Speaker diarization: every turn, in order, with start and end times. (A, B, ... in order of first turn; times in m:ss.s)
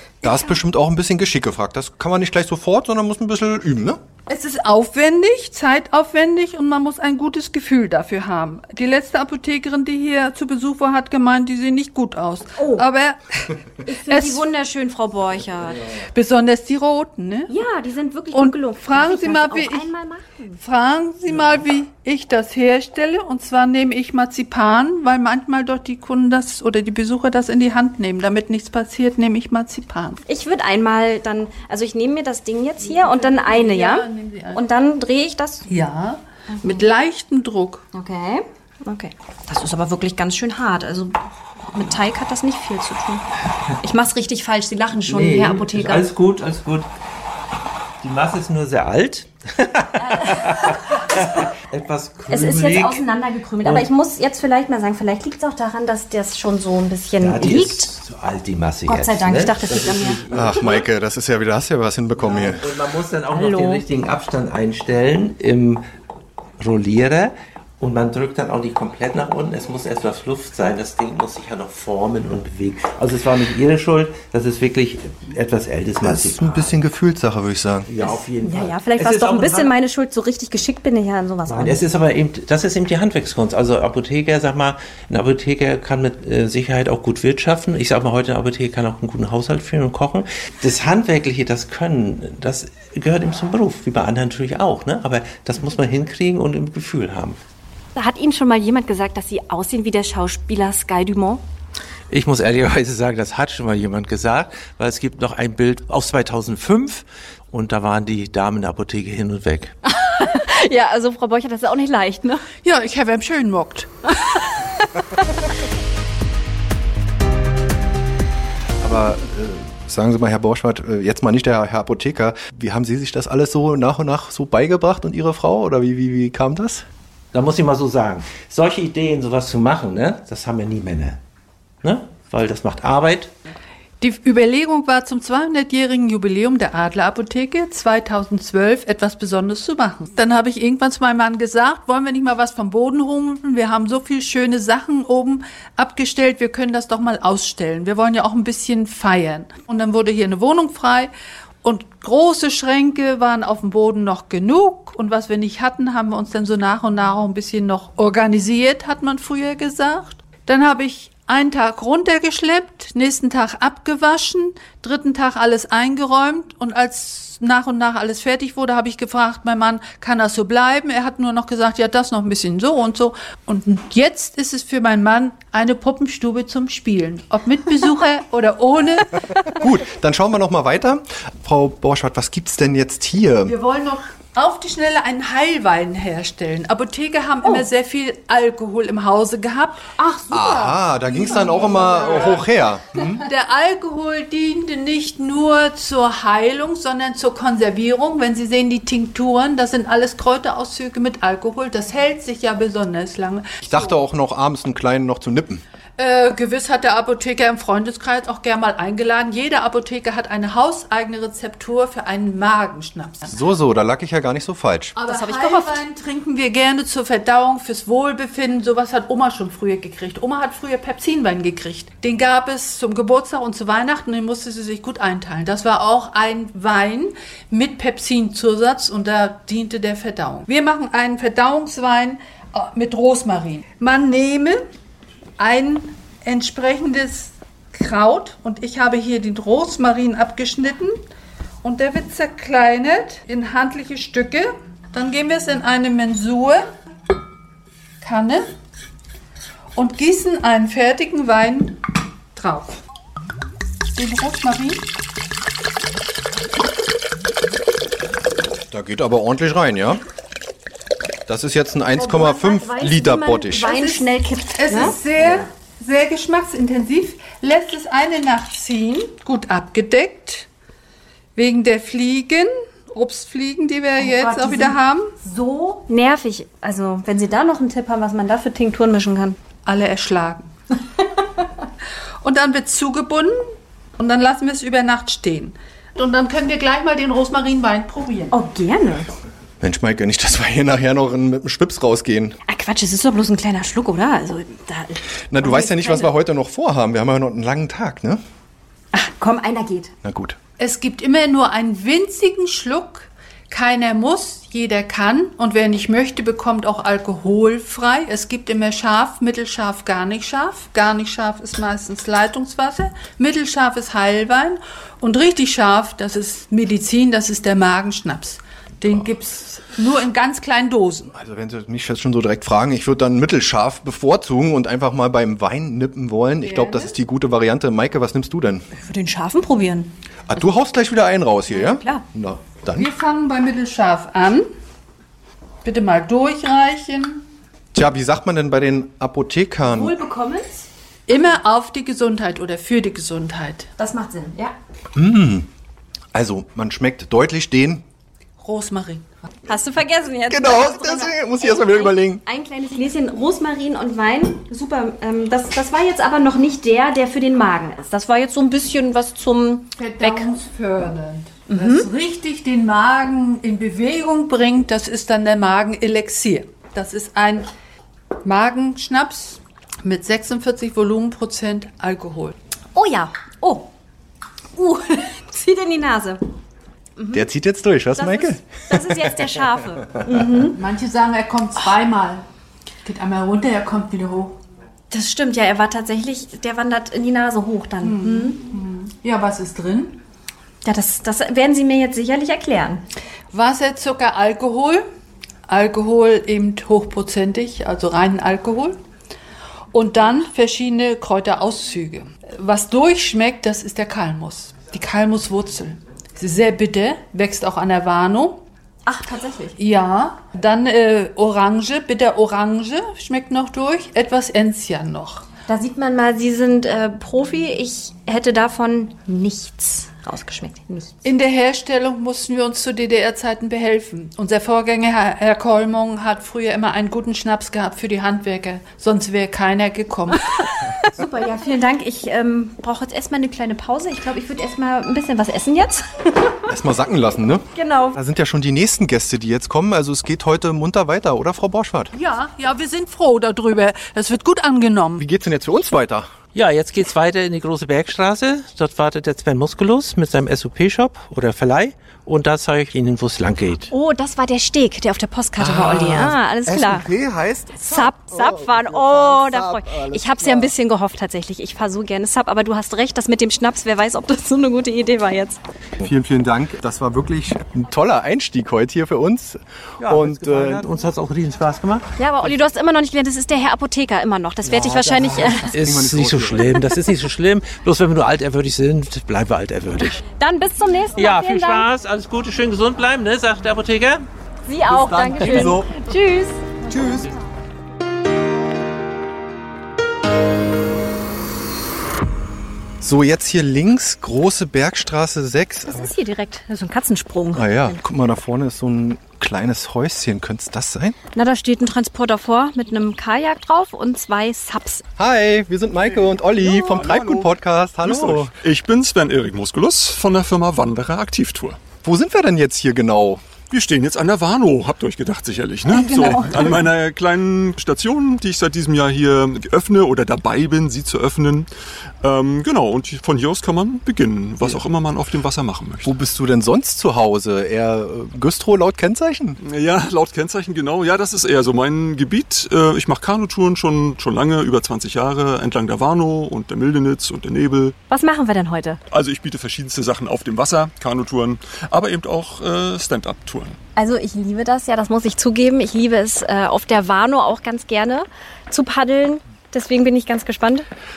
0:00.2-0:04.0 A
0:04.3-0:14.4 B
0:12.6-0:12.8 C
0:13.8-0:15.9 C
0:16.0-0:17.5 B
0:17.5-0:20.6 C
0:18.3-0:19.9 B
0:20.6-0:30.2 B
0:30.3-0:35.6 C
0:32.8-0:34.6 B
0:35.7-0:37.8 B
0:36.5-0:36.8 C
0:37.9-0:41.2 C
0:41.7-0:43.2 C
0:43.8-0:46.0 C
0:45.1-0:46.9 D
0:48.0-0:53.0 D
0:50.0-0:51.1 C
0:52.3-0:57.9 C
0:57.2-1:00.8 D
0:58.9-1:00.2 C
1:00.3-1:02.7 A
1:02.2-1:05.8 D
1:03.3-1:03.8 C
1:06.6-1:16.7 D
1:16.0-1:17.9 A
1:17.9-1:19.7 D
1:18.4-1:21.8 C
1:21.5-1:37.4 D
1:38.0-1:41.4 C
1:42.1-1:49.8 D
1:49.8-1:52.4 C
1:52.6-1:54.1 B
1:58.8-2:06.8 A
2:07.3-2:11.2 D
2:11.8-2:13.3 D
2:14.0-2:31.1 B
2:31.6-2:59.2 B
2:59.6-3:03.5 A
3:03.4-3:12.4 B
3:10.0-3:10.7 C
3:10.3-3:13.2 A
3:11.6-3:12.2 C
3:13.2-3:24.0 B
3:23.6-3:25.6 A
3:26.0-3:33.3 B
3:33.3-3:34.9 A
3:35.0-3:54.6 B
3:35.0-3:35.8 C
3:55.4-4:01.0 B
4:01.6-4:06.7 B
4:08.0-4:08.5 B
4:09.7-4:11.8 B
4:12.3-4:12.8 B
4:13.9-4:14.8 B
4:18.7-4:20.0 A
4:21.3-4:23.7 A
4:21.9-4:25.0 C
4:23.6-4:30.5 B
4:31.4-4:35.1 B
4:34.0-4:39.4 C
4:39.6-4:40.5 B
4:42.2-4:43.4 B
4:44.0-4:48.3 B
4:48.3-4:49.1 C
4:49.6-4:52.4 A
4:52.5-4:56.1 C
4:55.3-4:58.2 A
4:58.9-4:59.9 C
5:00.0-5:00.4 A
5:00.6-5:21.1 B
5:21.1-5:28.6 A
5:26.4-5:26.9 B
5:28.7-5:29.9 C
5:30.3-5:32.9 A
5:31.5-5:32.0 C
5:32.7-5:34.5 B
5:35.6-5:37.2 B
5:37.7-5:39.9 A
5:39.6-5:40.6 C
5:41.1-5:43.7 B
5:43.8-5:44.5 C
5:44.9-5:45.5 A
5:46.1-5:47.8 A
5:48.4-5:49.1 B
5:49.5-6:00.3 C
5:50.3-5:52.2 A
5:59.8-6:07.5 B
6:01.5-6:01.9 C
6:08.2-6:12.3 B
6:12.7-6:13.7 C
6:14.6-6:16.2 C
6:17.0-6:17.3 C
6:17.1-6:19.5 A
6:18.0-6:20.6 C
6:20.4-6:22.2 B
6:22.8-6:24.4 B
6:24.9-6:28.4 C
6:27.8-6:30.0 B
6:30.6-6:32.8 C
6:33.3-6:34.8 B
6:35.5-6:38.8 B
6:39.7-6:48.4 B
6:48.8-6:49.6 C
6:49.6-6:55.2 B
6:55.5-7:00.9 C
7:01.0-7:10.3 B
7:10.8-7:16.4 C
7:16.5-7:21.9 A
7:17.5-7:18.0 C
7:21.9-7:25.0 B
7:25.0-7:26.1 A
7:26.3-7:33.7 D
7:33.7-7:36.8 C
7:35.4-7:40.5 A
7:37.6-7:45.4 C
7:45.8-7:50.6 A
7:49.8-7:51.8 D
7:52.0-7:55.5 C
7:54.4-7:56.6 A
7:55.5-8:00.0 D
8:00.1-8:01.7 C
8:01.0-8:04.0 D
8:04.4-8:06.5 C
8:05.0-8:05.7 A
8:05.2-8:05.6 D
8:06.7-8:07.1 A
8:12.8-8:15.9 A
8:15.7-8:17.8 C
8:17.3-8:21.0 A
8:21.1-8:24.8 C
8:25.0-8:28.3 A
8:26.4-8:27.3 E
8:27.8-8:31.6 E
8:31.8-8:33.2 A
8:33.5-8:41.5 E
8:35.7-8:36.6 C
8:42.0-8:45.9 E
8:45.8-8:49.4 A
8:49.4-8:57.8 E
8:57.9-8:58.8 C
8:58.9-9:03.6 E
9:03.8-9:10.6 C